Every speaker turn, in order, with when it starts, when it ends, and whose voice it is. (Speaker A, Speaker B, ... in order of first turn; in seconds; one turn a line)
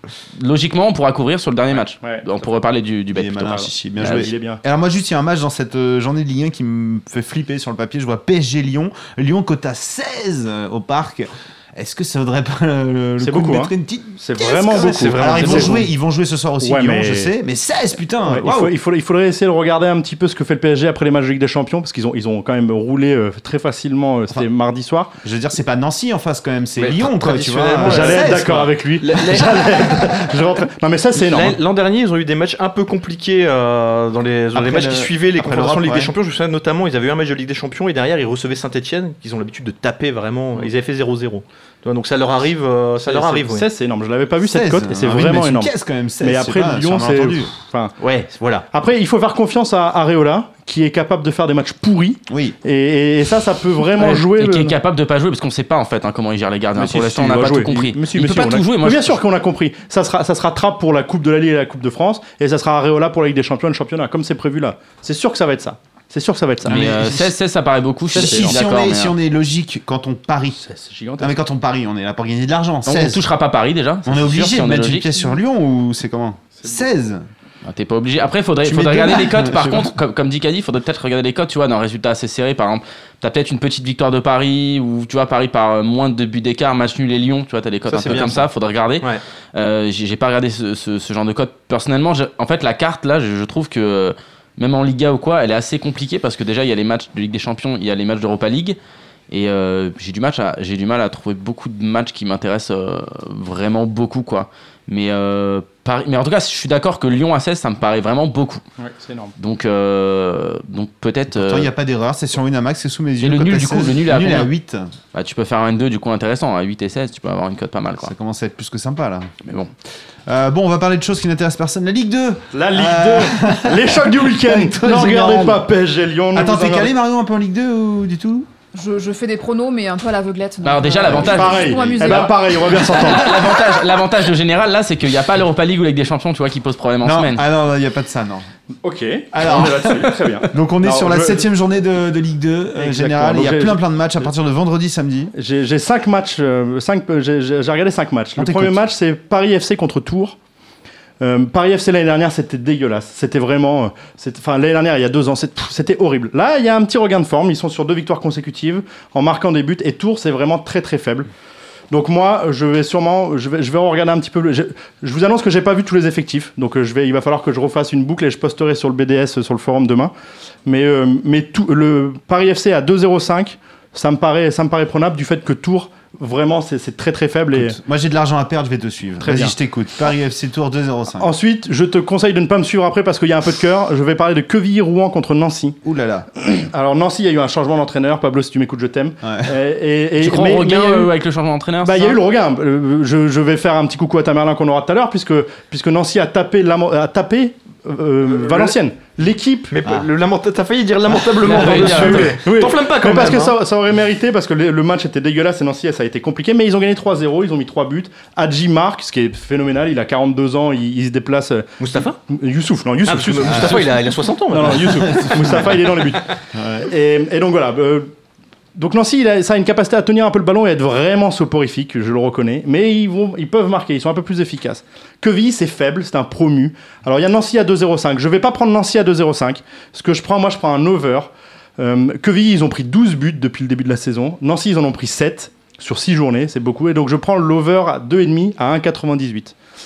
Speaker A: 0.4-4.3
Speaker B: 3.1-18.7
Speaker C: 4.0-4.6
Speaker C: 13.2-15.8
Speaker D: 14.6-15.8
Speaker C: 16.6-17.3
Speaker C: 18.2-25.1
Speaker B: 25.2-28.7
Speaker D: 26.8-30.2
Speaker C: 27.8-31.6
Speaker D: 31.1-43.7
Speaker B: 34.5-36.1
Speaker C: 43.0-47.9
Speaker B: 44.4-47.5
Speaker D: 48.0-48.7
Speaker C: 48.7-54.8
Speaker B: 52.3-52.6
Speaker A: 54.0-59.2
Speaker C: 56.8-67.3
Speaker A: 66.7-69.1
Speaker C: 68.1-68.6
Speaker B: 68.1-70.6
Speaker C: 70.6-71.3
Speaker B: 71.2-73.3
Speaker A: 72.9-75.1
Speaker B: 74.1-77.2
Speaker A: 77.7-98.8
Speaker B: 78.7-79.9
Speaker D: 87.9-88.5
Speaker A: 99.3-108.6
Speaker C: 108.8-109.3
Speaker A: 109.4-111.7
Speaker B: 111.3-114.9
Speaker A: 113.2-114.5
Speaker A: 115.1-118.1
Speaker B: 118.0-119.3
Speaker A: 119.5-119.7
Speaker B: 120.3-125.6
Speaker C: 122.5-126.9
Speaker B: 126.3-128.5
Speaker E: 128.7-132.3
Speaker A: 130.6-137.4
Speaker B: 131.1-132.2
Speaker C: 131.2-133.5
Speaker B: 137.0-138.5
Speaker C: 138.8-141.5
Speaker B: 139.3-145.3
Speaker C: 142.8-143.8
Speaker C: 145.3-150.4
Speaker B: 148.4-148.8
Speaker C: 151.2-161.3
Speaker C: 161.9-170.1
Speaker C: 170.7-177.8
Speaker B: 177.5-181.3
Speaker C: 179.2-179.5
Speaker C: 181.2-185.8
Speaker B: 185.8-186.3
Speaker C: 186.4-191.1
Speaker B: 189.2-189.5
Speaker A: 190.2-192.2
Speaker C: 191.8-199.7
Speaker D: 198.4-198.7
Speaker D: 199.7-203.6
Speaker A: 201.4-202.4
Speaker C: 201.5-211.7
Speaker D: 211.8-212.2
Speaker C: 212.3-214.0
Speaker D: 213.1-215.8
Speaker B: 213.5-213.8
Speaker C: 214.5-216.2
Speaker B: 215.1-215.6
Speaker B: 216.6-216.8
Speaker C: 216.8-218.1
Speaker C: 218.8-239.5